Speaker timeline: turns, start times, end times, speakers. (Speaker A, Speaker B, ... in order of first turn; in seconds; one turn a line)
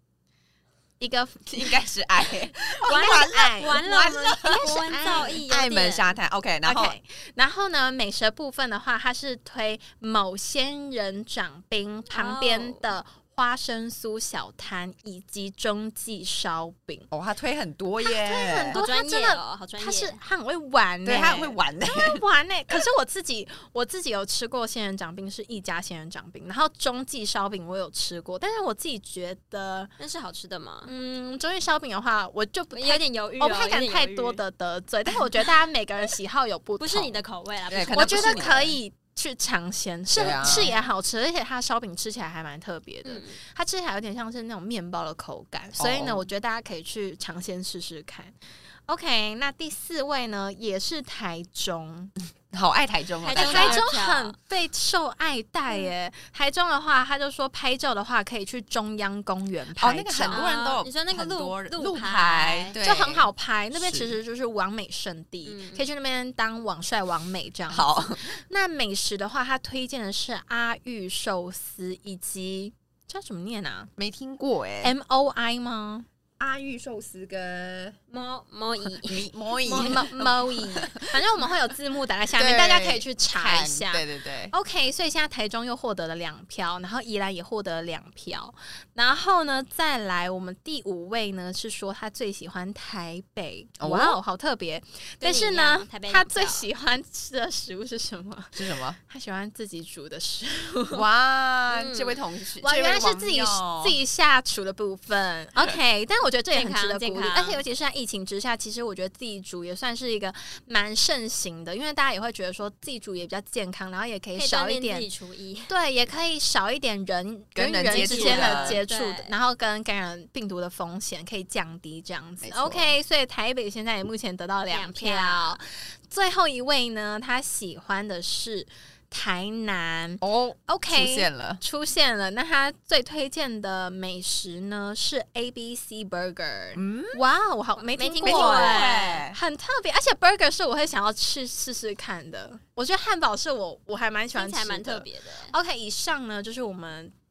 Speaker A: 1.0-1.7
Speaker B: 1.5-7.0
Speaker A: 2.9-5.4
Speaker C: 3.1-6.2
Speaker A: 6.7-17.1
Speaker C: 12.1-12.9
Speaker B: 17.1-18.8
Speaker A: 18.0-29.9
Speaker C: 18.7-20.2
Speaker B: 21.1-22.2
Speaker C: 30.0-30.9
Speaker A: 30.9-37.2
Speaker C: 32.7-34.4
Speaker C: 36.8-38.5
Speaker B: 37.7-38.8
Speaker A: 37.9-48.3
Speaker B: 40.1-40.7
Speaker C: 40.2-40.9
Speaker C: 43.1-43.4
Speaker B: 45.8-46.2
Speaker A: 48.9-52.1
Speaker B: 52.5-53.8
Speaker C: 53.2-54.4
Speaker A: 53.4-60.5
Speaker B: 59.8-64.2
Speaker C: 60.3-62.8
Speaker A: 62.8-73.9
Speaker C: 65.5-65.8
Speaker B: 67.7-68.3
Speaker B: 74.0-74.9
Speaker A: 74.8-76.1
Speaker B: 76.4-78.0
Speaker C: 78.1-80.0
Speaker B: 78.9-81.2
Speaker A: 79.7-101.0
Speaker B: 82.4-84.5
Speaker B: 93.8-94.2
Speaker C: 95.2-96.7
Speaker B: 98.5-99.0
Speaker B: 100.9-104.0
Speaker C: 101.7-102.2
Speaker A: 102.6-115.1
Speaker C: 106.5-107.6
Speaker C: 114.4-115.7
Speaker A: 115.7-147.1
Speaker B: 117.5-118.8
Speaker C: 117.9-119.3
Speaker B: 122.4-123.0
Speaker C: 124.7-125.6
Speaker B: 130.2-131.6
Speaker B: 136.8-137.2
Speaker C: 137.8-139.3
Speaker B: 138.2-139.4
Speaker C: 144.3-145.5